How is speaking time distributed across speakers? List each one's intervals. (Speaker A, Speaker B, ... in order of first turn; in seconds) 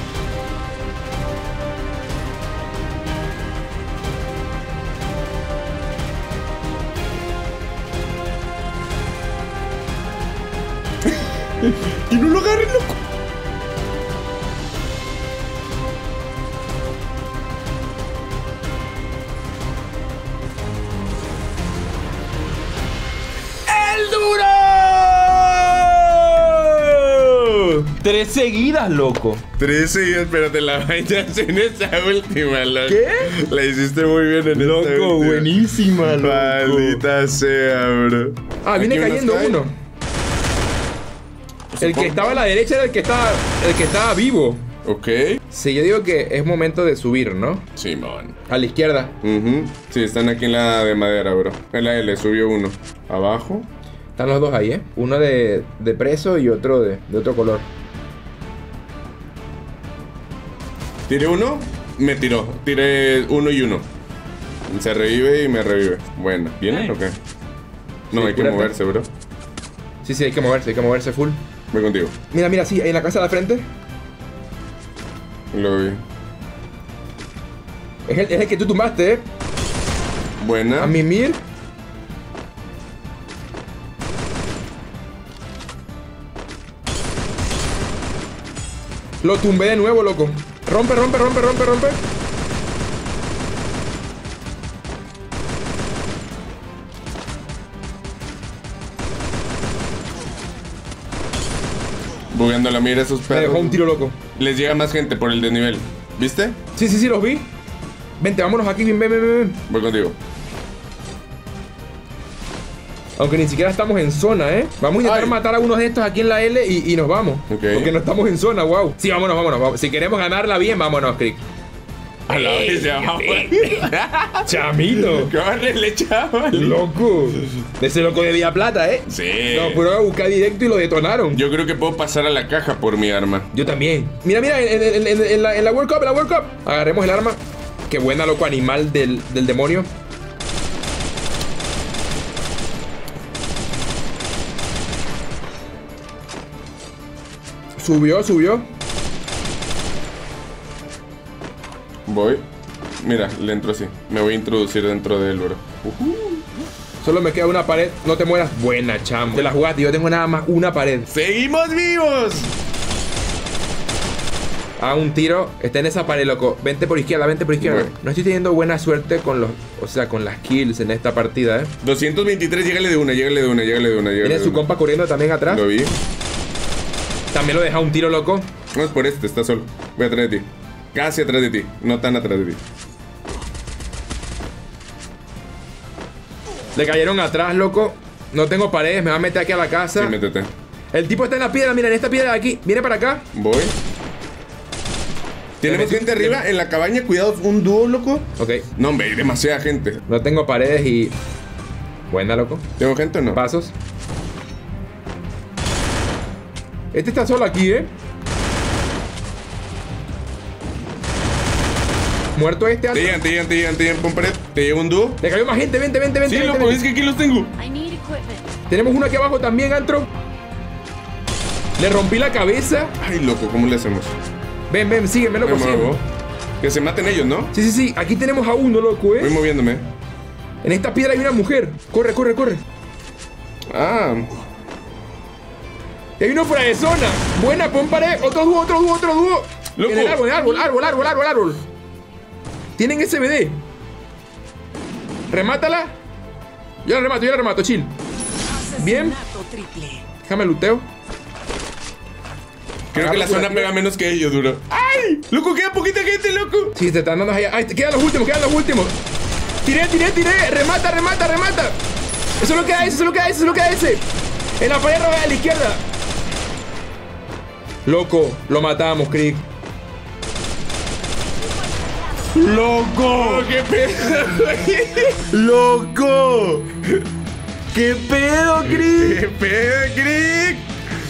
Speaker A: 11.0-13.0, 29.6-39.6, 41.7-42.4, 44.8-45.4, 47.8-48.4, 49.2-53.7, 61.1-63.9, 64.7-67.2, 68.1-69.1, 71.7-72.1, 75.5-76.0, 80.4-81.0, 102.3-103.8, 104.3-106.6, 109.7-110.2, 115.0-115.4, 117.5-117.9, 122.3-127.4, 129.1-129.9, 131.3-133.5, 152.1-152.5, 153.0-156.4, 161.1-162.5, 167.6-167.9, 171.8-174.7, 175.5-176.0, 178.7-182.6, 190.0-190.5, 193.3-193.8, 195.6-200.0, 202.8-203.4, 212.9-215.2, 216.2-217.5, 223.0-224.2, 225.4-226.0, 226.6-227.5, 229.2-229.9, 233.7-234.4, 239.8-240.3, 252.9-256.7, 273.0-275.3, 278.6-280.7
Speaker B: 23.7-26.9, 27.8-29.4, 32.9-33.3, 34.5-37.0, 38.6-39.7, 41.8-44.6, 45.5-47.7, 48.5-49.1, 54.2-57.7, 68.1-68.7, 70.0-71.4, 72.3-73.7, 78.1-79.2, 80.8-81.4, 89.2-92.0, 103.3-104.2, 106.8-107.5, 108.2-109.6, 113.2-121.4, 122.3-123.4, 124.4-125.3, 126.5-131.4, 133.5-139.9, 147.8-148.6, 157.0-161.1, 164.8-171.7, 174.2-175.6, 177.3-178.5, 186.8-190.2, 190.9-193.3, 195.6-196.4, 198.4-198.6, 200.1-201.2, 202.1-202.7, 203.3-203.7, 206.9-207.9, 212.3-213.2, 215.2-216.8, 218.7-220.1, 221.8-222.9, 224.7-226.0, 227.5-229.4, 230.6-232.6, 236.2-241.6, 242.8-243.6, 245.3-245.9, 246.8-247.9, 248.8-249.2, 250.2-250.9, 252.9-253.7, 256.8-258.9, 259.6-261.8, 262.4-264.0, 264.6-265.8, 267.9-269.4, 272.3-273.5, 275.3-276.7, 277.7-279.2
Speaker C: 217.6-218.5, 248.5-250.0